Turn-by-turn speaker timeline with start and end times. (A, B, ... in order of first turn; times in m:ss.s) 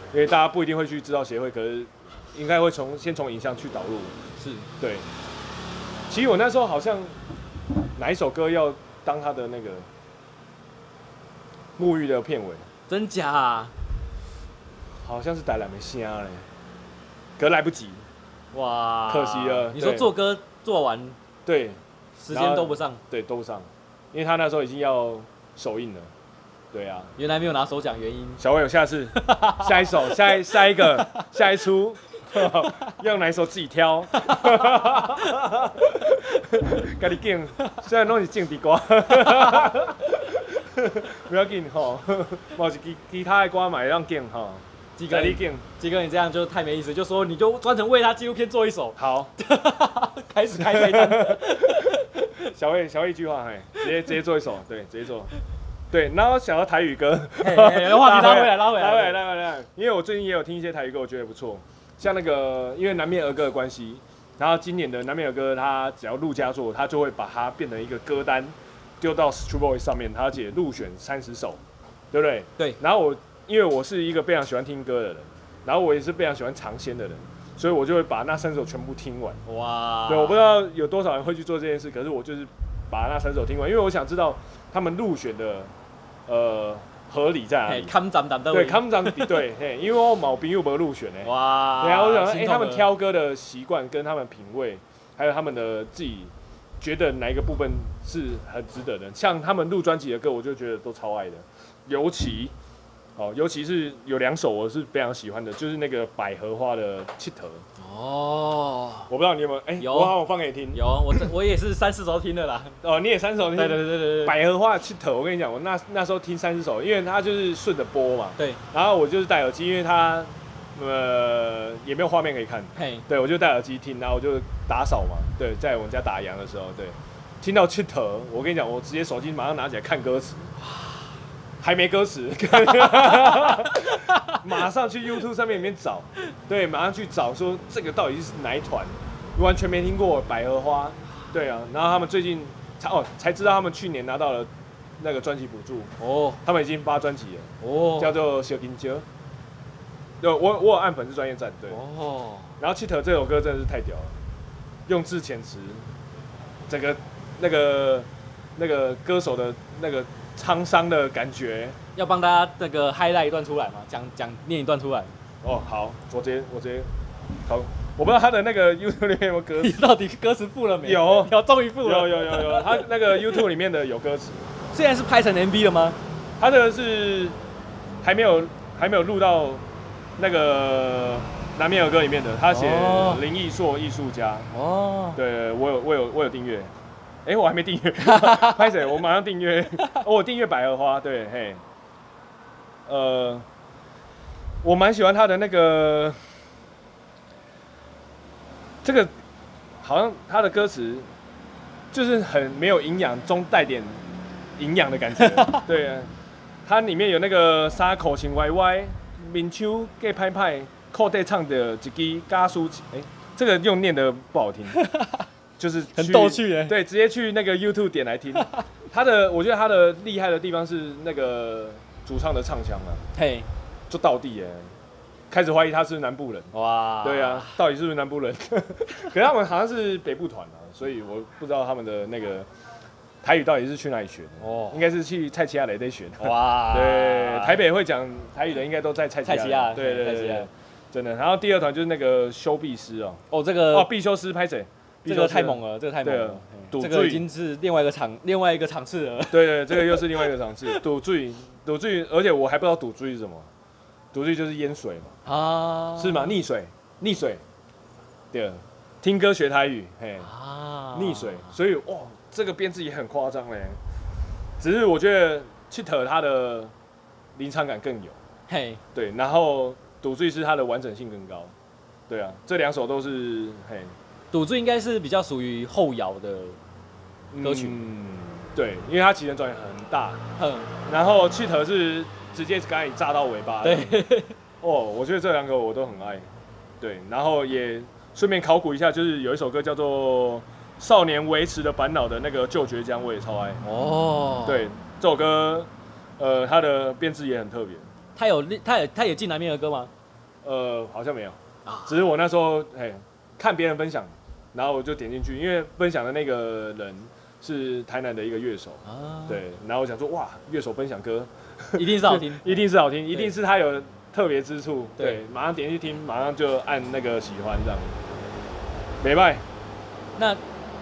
0:00.1-0:04.2 A
0:04.4-0:04.7 B
0:04.8-0:05.1 A
0:06.1-0:07.2 A
0:08.0-0:09.9 A
0:11.8-0:12.7 A
0:12.9-0:13.7 B
0:15.0-0:16.5 A
0:17.4-0:18.1 A
0:18.5-0:21.2 B
0:19.1-0:20.1 A
0:21.5-0:26.1 A
0:22.2-0:23.0 B
0:26.7-0:27.1 A
0:27.2-0:28.4 B
0:28.4-0:45.6 A
0:29.2-0:31.3 B
0:32.4-0:32.9 B
0:34.2-0:36.0 B
0:39.2-0:39.8 B
0:45.0-0:52.5 B
0:49.0-0:49.3 A
0:50.5-0:55.3 A
0:53.8-0:54.1 B
0:55.9-1:11.6 A
0:57.4-0:59.2 B
1:12.1-1:19.4 A
1:19.5-1:20.5 B
1:20.1-1:25.7 A
1:26.3-1:27.9 A
1:27.7-1:29.4 B
1:28.5-1:42.5 A
1:31.2-1:32.9 B
1:43.2-1:47.6 A
1:47.8-1:49.1 B
1:49.1-1:51.3 A
1:49.8-1:50.2 B
1:50.7-1:52.8 B
1:52.8-2:10.5 A
1:53.5-1:54.4 B
2:02.8-2:03.1 B
2:11.6-2:29.1 A
2:12.8-2:14.4 B
2:26.0-2:26.4 B
2:27.6-2:28.2 B
2:30.2-2:31.8 A
2:31.7-2:32.5 B
2:32.6-2:34.2 A
2:34.9-2:35.9 A
2:36.7-2:41.8 A
2:42.0-2:45.1 B
2:45.4-2:46.9 A
2:47.5-2:49.8 A
2:49.6-2:53.4 B
2:50.8-2:54.5 A
2:54.7-2:56.0 B
2:56.4-2:57.4 A
2:58.0-2:59.6 A
3:00.2-3:04.5 A
3:02.5-3:03.2 B
3:04.5-3:05.2 B
3:05.2-3:06.7 A
3:07.2-3:11.6 A
3:08.0-3:08.9 B
3:12.9-3:13.5 A
3:14.6-3:16.3 A
3:18.8-3:19.1 A
3:19.8-3:21.1 A
3:21.9-3:24.0 A
3:24.6-3:26.1 A
3:25.2-3:25.7 B
3:26.6-3:34.8 A
3:34.7-3:35.3 B
3:35.6-3:43.0 A
3:36.0-3:36.8 B
3:38.4-3:38.6 B
3:43.2-3:43.5 B
3:43.9-3:44.7 A
3:45.3-3:52.5 A
3:46.5-3:47.6 B
3:53.2-4:07.2 A
3:54.4-3:54.8 B
3:56.2-3:57.6 B
3:59.2-4:00.5 B
4:03.3-4:03.9 B
4:05.1-4:10.8 B
4:09.3-4:13.5 A
4:14.1-4:15.1 A
4:15.2-4:16.4 B
4:16.0-4:17.4 A
4:18.3-4:20.3 A
4:20.2-4:21.6 B
4:20.9-4:23.8 A
4:24.6-4:26.7 A
4:27.4-4:28.2 A
4:28.5-4:28.8 B
4:28.9-4:31.5 A
4:32.1-4:33.9 A
4:34.3-4:36.6 B
4:37.3-4:40.2 A
4:37.4-4:37.8 B
4:40.4-4:40.7 B
4:40.8-4:44.0 A
4:43.6-4:44.4 B
4:44.6-4:46.3 A
4:46.8-4:53.6 A
4:53.6-4:54.7 B
4:54.4-4:57.9 A
4:58.2-4:59.9 B
5:00.4-5:18.0 A
5:01.6-5:02.0 B
5:08.9-5:09.4 B
5:11.8-5:13.3 B
5:19.0-5:19.4 A